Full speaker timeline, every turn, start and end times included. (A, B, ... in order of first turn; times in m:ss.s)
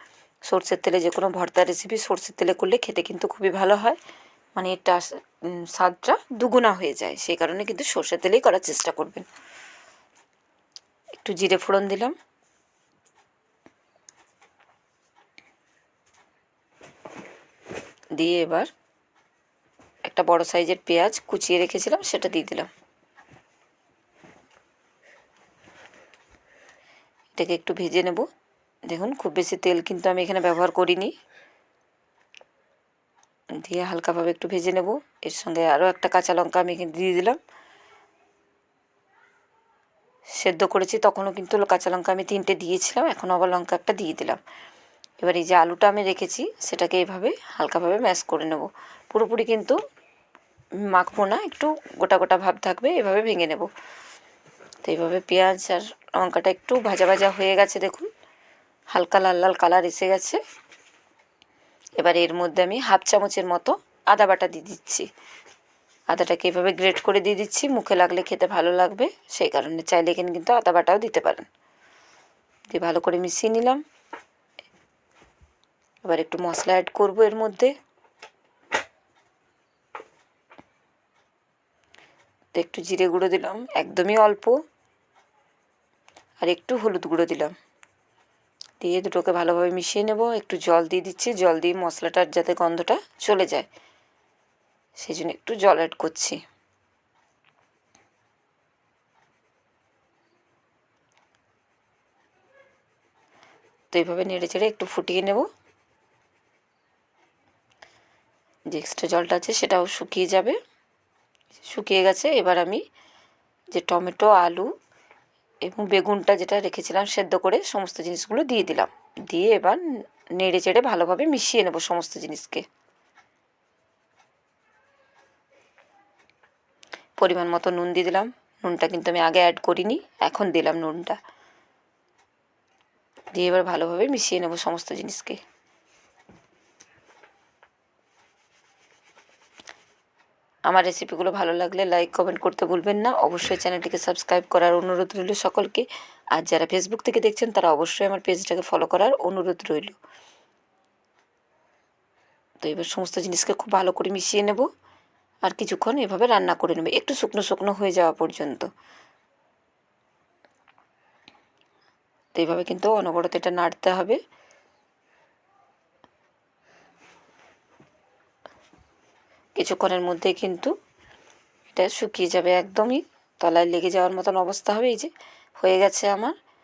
0:00.5-0:04.0 A
0:04.5-0:09.2 A
0:11.2-0:12.1 A
0:18.2-0:18.7 A
0:20.0-0:22.7 A
0:27.3-0:28.3 A
0:28.9-0:31.1 A
0:33.5-0:37.4 A
0:40.4-0:44.4 A
0:45.2-0:49.8 A
0:50.9-0:53.7 A
0:54.8-0:58.1 A
0:58.9-1:00.4 A
1:02.0-1:05.1 A
1:06.1-1:11.4 A
1:12.7-1:13.8 A
1:16.0-1:17.7 A
1:22.5-1:24.5 A
1:26.4-1:27.5 A
1:28.8-1:33.7 A
1:35.0-1:36.4 A
1:43.9-1:45.5 A
1:48.7-1:50.6 A
1:51.6-1:52.8 A
1:53.7-1:54.7 A
1:55.6-1:59.8 A
2:00.3-2:02.6 A
2:07.2-2:11.2 A
2:13.3-2:15.4 A
2:20.7-2:29.9 A
2:32.6-2:34.7 A
2:35.4-2:38.7 A
2:42.3-2:44.2 A
2:49.6-2:50.7 A
2:51.7-2:56.3 A